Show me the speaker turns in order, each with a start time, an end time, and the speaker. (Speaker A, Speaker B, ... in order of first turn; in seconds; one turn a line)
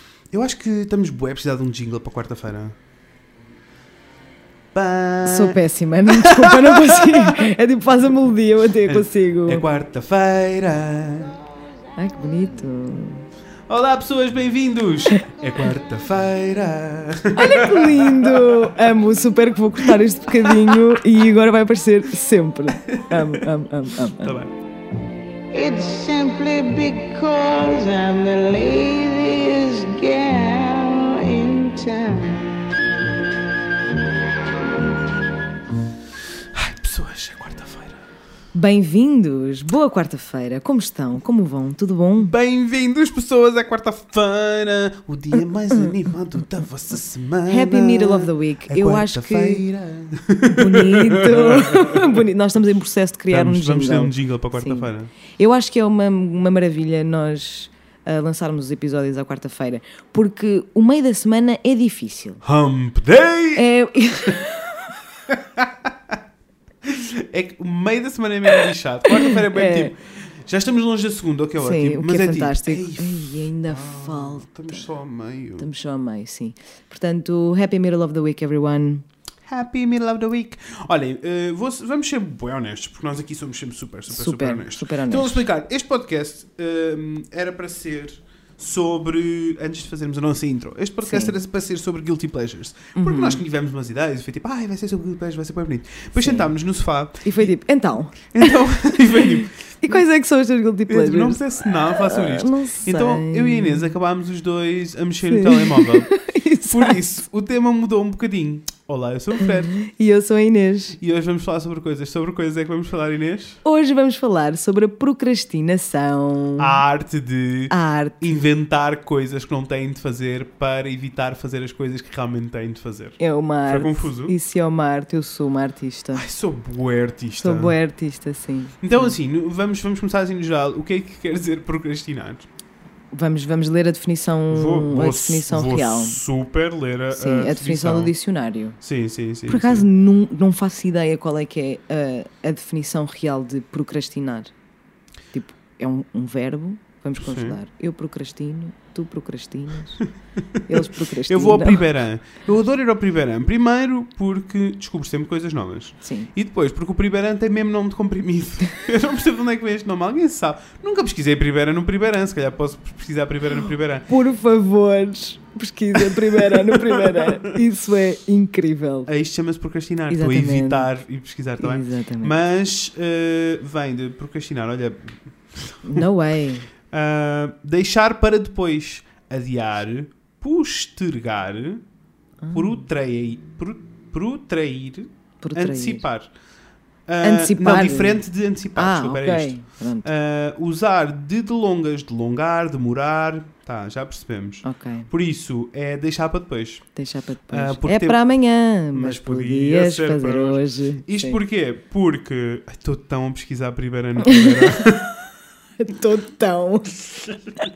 Speaker A: 0.3-2.8
Speaker A: 4.7-7.4
Speaker B: 5.2-9.7
Speaker A: 8.8-11.4
Speaker B: 11.9-13.2
Speaker A: 13.7-18.9
Speaker B: 17.3-24.4
Speaker A: 20.4-20.8
Speaker A: 22.9-23.4
Speaker A: 24.0-24.5
Speaker C: 25.5-32.5
Speaker A: 36.5-38.0
Speaker B: 38.5-42.3
Speaker A: 42.2-52.2
Speaker B: 47.5-49.6
Speaker B: 50.5-62.4
Speaker A: 53.3-55.1
Speaker A: 62.4-63.6
Speaker B: 63.5-64.8
Speaker A: 65.3-66.1
Speaker A: 66.8-75.7
Speaker B: 69.2-69.9
Speaker B: 71.6-74.8
Speaker B: 75.6-79.0
Speaker A: 79.5-97.5
Speaker B: 84.1-85.4
Speaker B: 91.0-91.3
Speaker B: 92.9-93.4
Speaker B: 96.2-96.5
Speaker B: 97.2-98.6
Speaker A: 98.3-100.0
Speaker B: 99.2-103.9
Speaker A: 100.9-109.7
Speaker B: 105.3-107.0
Speaker B: 109.8-111.0
Speaker A: 111.0-113.6
Speaker B: 113.6-116.8
Speaker A: 116.6-124.3
Speaker B: 117.7-118.3
Speaker B: 123.2-126.2
Speaker A: 126.1-127.7
Speaker B: 127.4-129.1
Speaker A: 128.8-132.5
Speaker B: 133.1-136.2
Speaker A: 134.5-138.1
Speaker B: 137.1-138.8
Speaker A: 138.8-139.9
Speaker B: 139.5-144.5
Speaker B: 145.3-150.0
Speaker A: 147.2-147.6
Speaker B: 150.6-151.8
Speaker A: 151.3-164.1
Speaker B: 156.0-156.3
Speaker B: 164.1-169.1
Speaker A: 165.9-167.6
Speaker A: 169.1-176.0
Speaker B: 170.1-170.9
Speaker B: 171.6-172.3
Speaker B: 175.8-176.7
Speaker A: 176.9-181.8
Speaker B: 182.4-182.8
Speaker A: 182.5-186.3
Speaker B: 185.4-186.0
Speaker A: 187.1-196.8
Speaker B: 187.2-188.2
Speaker B: 188.7-190.1
Speaker B: 194.6-195.1
Speaker B: 196.9-201.4
Speaker A: 197.5-198.2
Speaker A: 198.9-205.1
Speaker B: 204.2-204.9
Speaker B: 205.8-207.3